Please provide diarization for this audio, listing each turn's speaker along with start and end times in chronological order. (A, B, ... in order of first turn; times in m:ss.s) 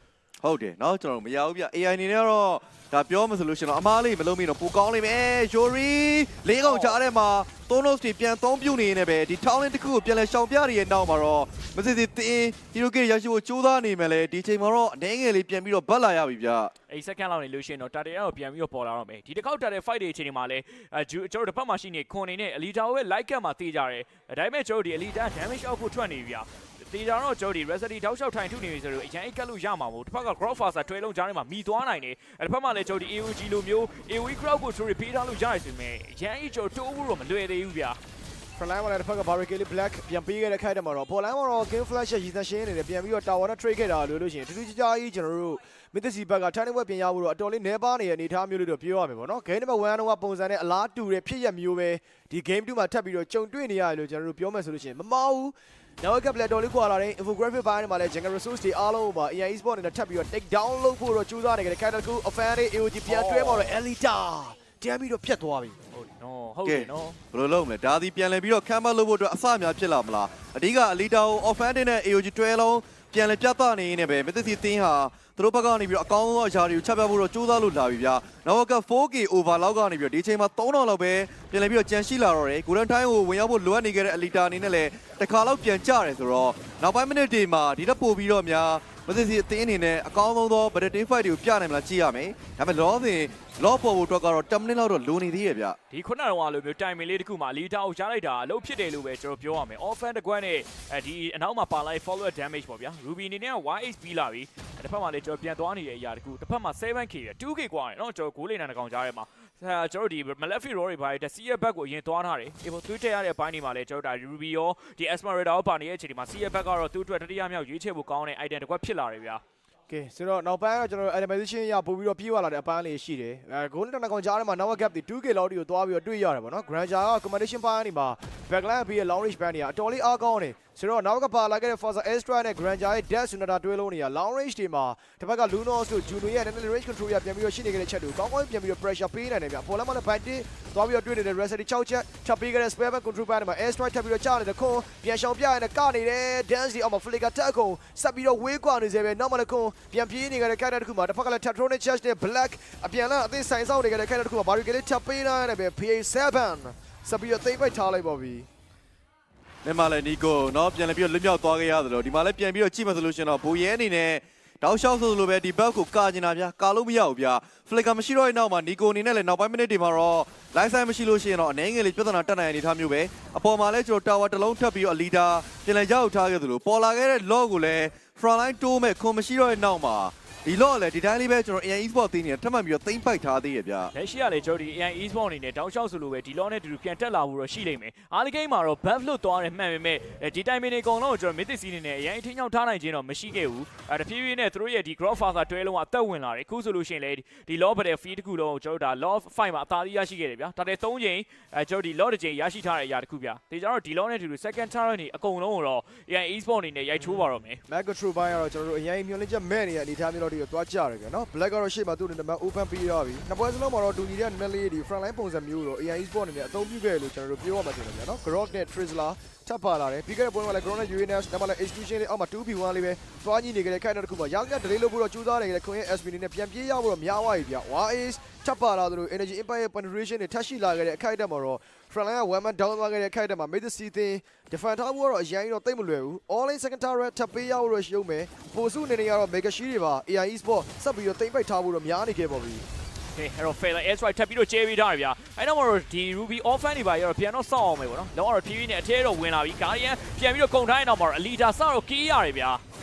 0:00.4-0:16.7 A
0:06.6-0:07.0 B
0:16.9-0:38.0 C
0:38.6-1:05.8 B
1:05.9-1:07.2 C
1:06.6-1:35.8 A
1:35.9-1:59.4 C
1:59.9-2:38.5 B
2:39.6-3:03.9 A
3:03.9-3:27.6 C
3:27.0-4:02.6 B
4:03.2-4:12.6 C